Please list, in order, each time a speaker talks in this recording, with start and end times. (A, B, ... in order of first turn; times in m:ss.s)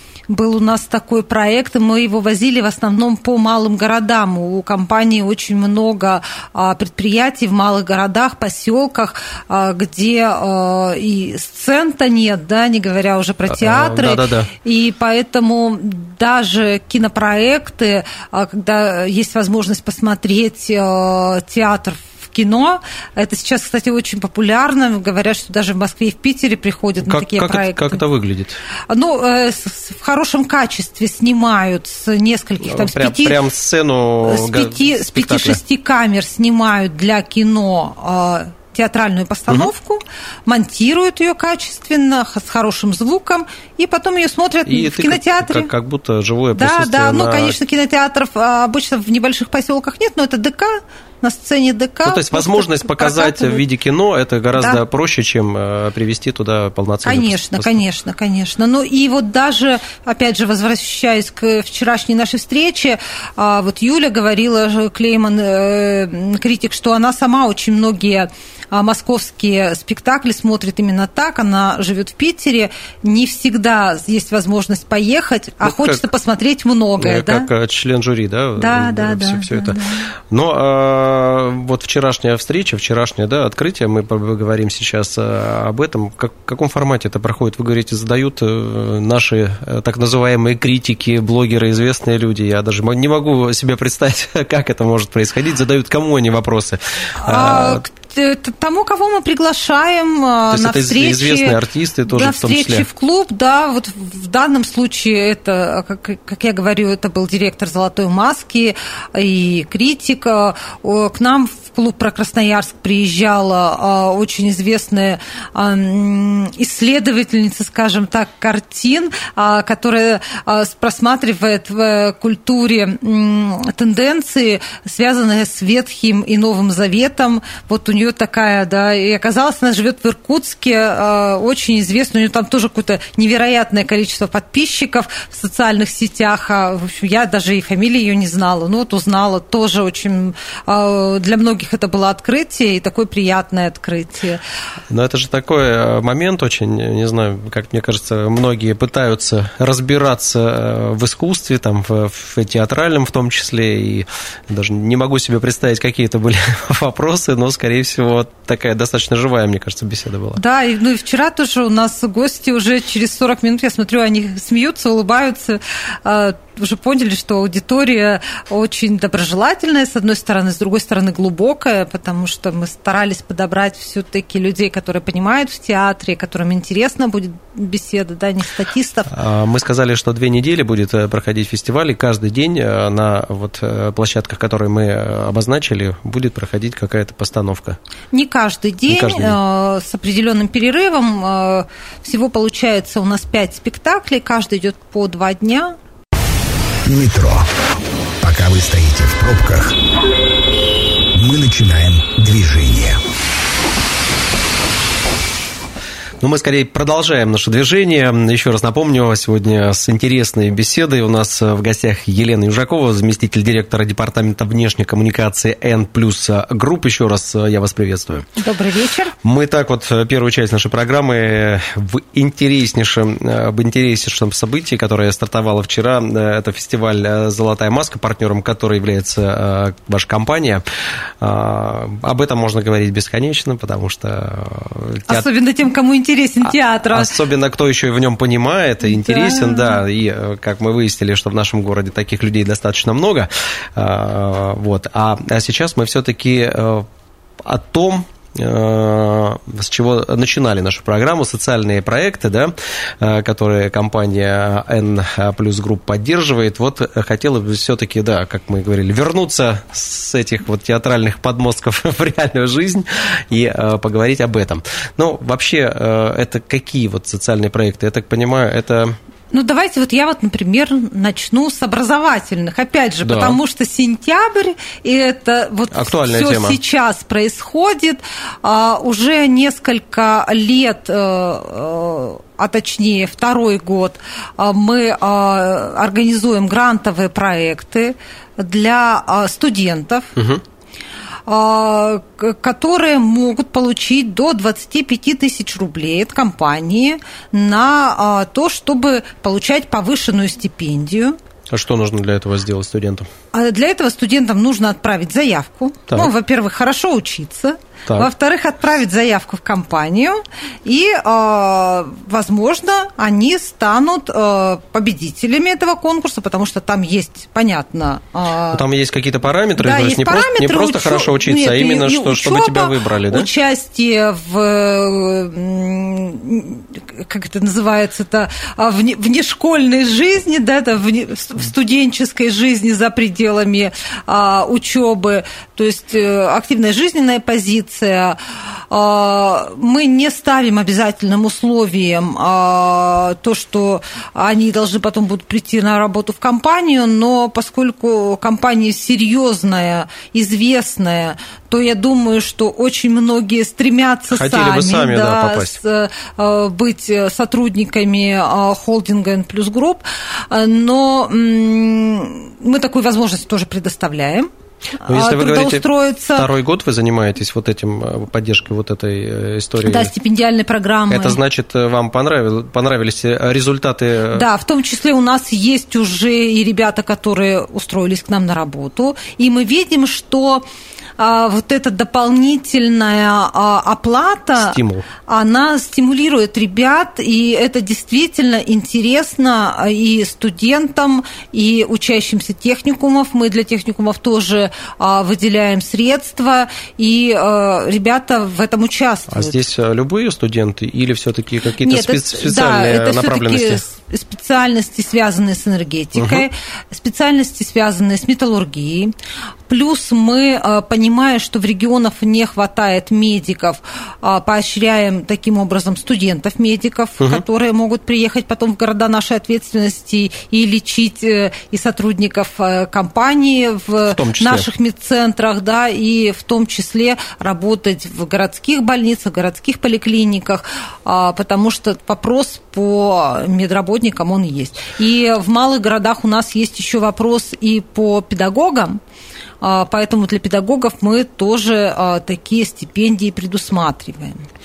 0:00.3-0:28.0 A
0:13.5-0:14.5 B
0:27.0-0:28.6 B
0:28.9-0:33.4 A
0:32.6-0:35.6 B
0:34.2-0:45.7 A
0:44.7-0:47.6 B
0:46.6-0:53.6 A
0:52.0-0:57.8 B
0:57.0-1:17.5 A
1:15.6-1:16.0 B
1:17.0-1:19.8 B
1:18.6-1:20.1 A
1:20.3-1:37.8 B
1:37.2-1:41.6 A
1:40.5-1:42.9 B
1:42.1-2:24.4 A
2:24.9-2:40.4 B
2:40.4-2:59.1 A
2:59.1-3:07.8 B
3:08.1-3:15.8 A
3:08.9-3:09.4 B
3:16.8-3:17.5 C
3:18.2-3:19.8 C
3:21.2-3:23.0 C
3:26.2-3:38.3 B
3:38.4-3:39.1 A
3:39.2-3:50.6 B
3:51.2-3:55.3 B
3:55.1-3:57.1 A
3:56.5-4:06.9 B
3:58.9-3:59.8 A
4:07.4-4:29.0 B
4:29.3-4:50.1 A
4:33.0-4:33.4 B
4:35.7-4:36.6 B
4:50.2-4:50.4 B
4:51.3-5:01.2 A
5:01.5-5:03.1 B
5:03.3-5:18.6 A
5:18.5-5:23.3 B
5:19.6-5:38.2 A
5:38.7-6:04.3 A
5:54.1-5:55.6 B
6:04.8-6:06.3 A
6:04.9-6:09.9 B
6:09.6-6:11.2 A
6:10.9-6:14.3 B
6:14.1-6:20.4 A
6:21.0-6:39.4 A
6:24.4-6:24.9 B
6:39.1-6:43.6 B
6:41.6-6:48.9 A
6:46.0-6:46.3 B
6:49.5-7:18.8 A
7:03.9-7:04.5 B
7:19.4-7:24.2 A